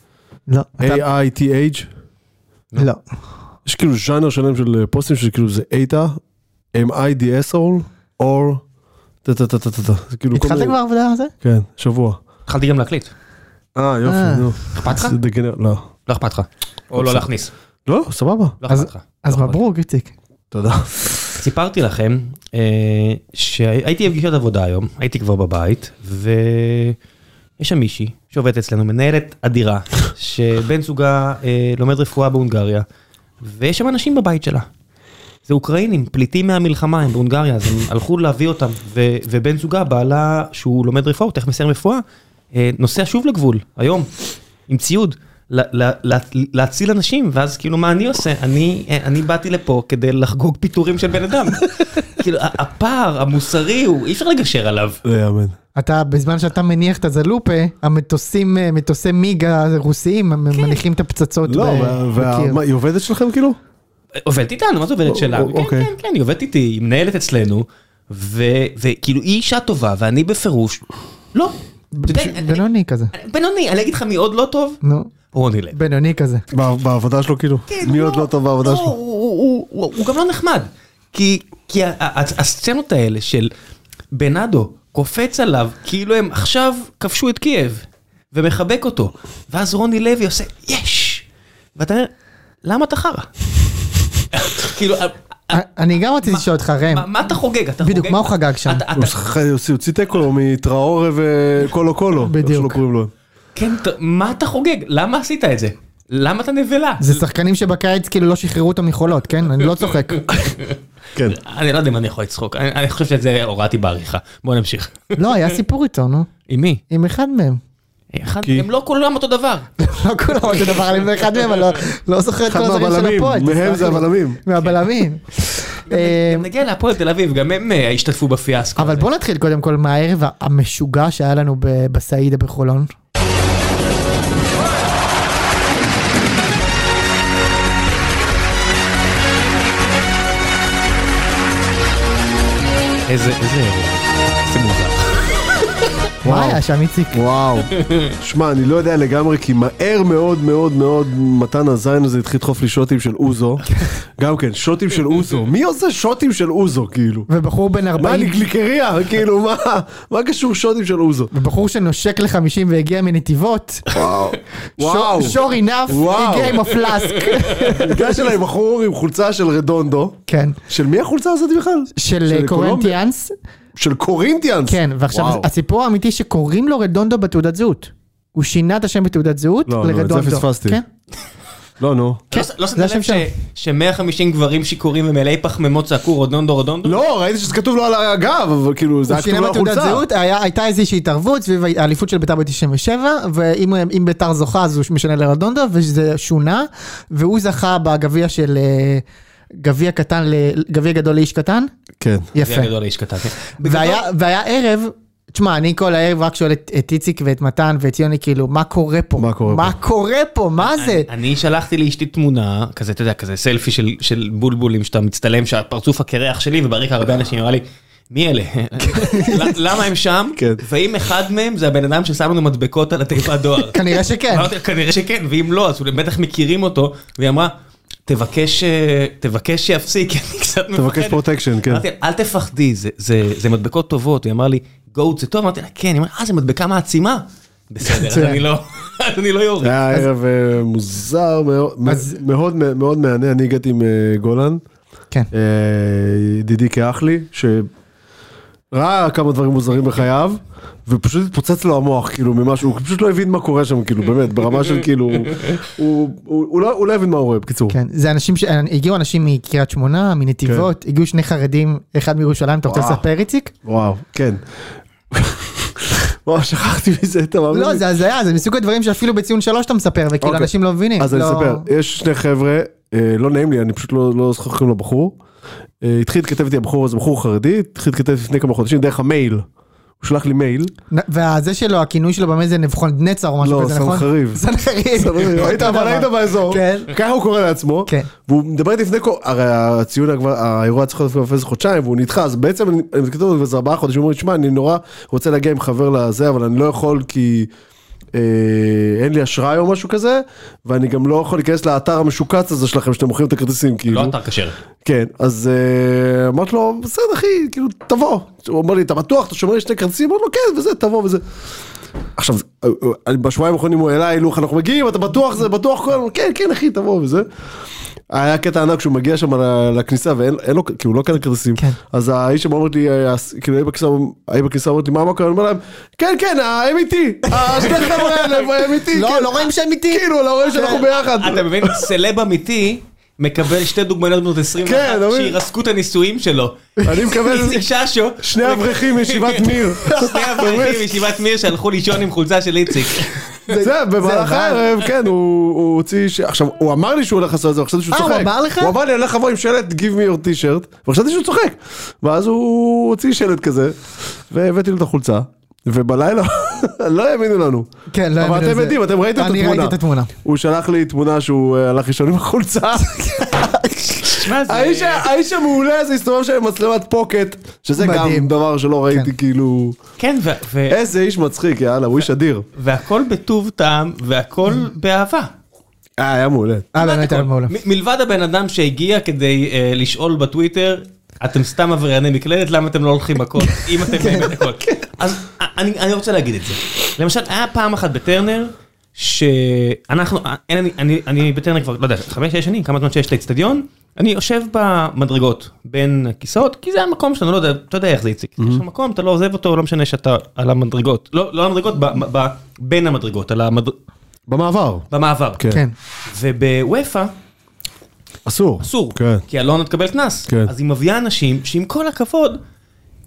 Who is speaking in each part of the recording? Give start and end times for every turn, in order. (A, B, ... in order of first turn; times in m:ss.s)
0:00.5-0:01.0 A
0:00.8-0:01.9 B
0:02.8-0:03.0 A
0:03.6-0:06.2 B
0:06.7-0:08.6 B
0:09.2-0:10.8 B
0:10.3-0:11.3 A
0:11.4-0:12.2 B
0:12.5-0:13.1 C
0:13.8-0:15.9 B
0:14.0-0:14.5 A
0:14.7-0:15.2 C
0:16.1-0:17.5 C
0:17.9-0:18.6 B
0:18.6-0:19.6 C
0:18.7-0:20.1 A
0:20.5-0:21.4 B
0:21.4-0:27.0 C
0:27.6-0:32.8 C
0:33.4-0:34.7 C
0:35.5-0:44.1 C
0:44.7-0:55.0 C
0:55.0-0:55.6 B
0:55.8-1:02.6 A
1:01.4-1:03.6 B
1:04.2-1:10.8 C
1:05.1-1:05.9 B
1:11.3-1:14.8 C
1:11.9-1:13.1 A
1:14.8-1:15.1 A
1:15.3-1:15.8 C
1:15.7-1:16.4 A
1:16.5-1:19.0 B
1:17.7-1:23.5 C
1:24.1-1:31.2 C
1:31.8-1:32.1 C
1:32.6-1:33.3 C
1:34.3-1:35.6 C
1:35.5-1:37.1 A
1:36.2-1:39.1 C
1:37.8-1:38.9 A
1:39.0-1:43.1 B
1:42.2-1:42.8 A
1:43.6-1:47.2 C
1:47.0-1:50.3 A
1:50.2-1:50.8 C
1:51.3-1:55.3 C
1:55.2-1:56.3 A
1:56.5-1:56.8 C
1:56.9-1:57.6 A
1:58.1-1:59.7 C
1:59.8-2:06.5 A
2:02.5-2:04.4 B
2:05.9-2:09.1 C
2:08.8-2:12.9 A
2:23.1-2:25.2 C
2:26.2-2:26.6 B
2:26.2-2:27.2 A
2:27.1-2:33.7 B
2:27.8-2:28.1 C
2:34.2-2:37.3 B
2:37.3-2:38.4 A
2:38.0-2:41.3 B
2:41.3-2:43.9 A
2:43.9-2:46.7 B
2:44.8-2:48.4 A
2:47.2-2:47.7 C
2:47.8-2:53.0 B
2:50.3-2:50.6 A
2:52.0-2:53.3 A
2:53.8-2:55.5 B
2:54.7-3:00.8 A
2:59.7-3:00.8 B
3:01.8-3:02.2 B
3:02.3-3:07.0 C
3:02.4-3:03.3 A
3:06.8-3:10.0 B
3:09.1-3:21.7 A
3:22.0-3:22.3 B
3:22.3-3:22.7 A
3:22.4-3:24.0 C
3:23.6-3:31.1 A
3:29.2-3:29.7 B
3:30.6-3:47.5 C
3:38.8-3:39.6 A
3:40.4-3:40.6 B
3:43.7-3:44.5 A
3:48.1-3:59.8 C
3:50.8-3:51.8 B
3:57.8-3:58.4 A
3:59.6-4:04.6 B
4:01.9-4:02.2 A
4:05.3-4:07.7 B
4:08.7-4:17.8 B
4:17.7-4:23.5 A
4:22.7-4:23.0 B
4:23.6-4:24.4 B
4:25.1-4:27.8 B
4:27.5-4:31.7 A
4:30.2-4:35.2 B
4:35.8-4:39.5 B
4:40.0-4:40.7 B
4:40.9-4:46.9 A
4:43.4-4:44.4 B
4:45.0-4:57.5 B
4:58.1-5:04.2 B
5:03.9-5:04.6 C
5:04.8-5:11.2 B
5:12.2-5:17.3 B
5:18.1-5:29.4 B
5:27.4-5:30.8 A
5:29.9-5:31.9 B
5:30.9-5:43.3 C
5:34.6-5:35.4 B
5:36.8-5:37.6 B
5:38.2-5:40.9 B
5:39.9-5:40.2 A
5:43.5-5:44.7 A
5:43.5-5:53.8 B
5:47.9-5:48.7 A
5:54.3-5:57.7 B
5:57.9-6:00.1 A
5:58.2-6:03.2 B
6:02.9-6:04.0 A
6:04.0-6:05.1 C
6:04.4-6:09.8 B
6:07.8-6:08.3 A
6:10.0-6:10.8 C
6:10.7-6:12.5 B
6:12.6-6:15.3 C
6:16.0-6:16.7 B
6:16.7-6:17.5 A
6:16.8-6:43.8 C
6:23.4-6:24.7 A
6:44.3-6:44.9 B
6:44.9-6:45.4 C
6:46.1-6:47.1 C
6:48.3-6:49.2 B
6:48.6-6:52.4 C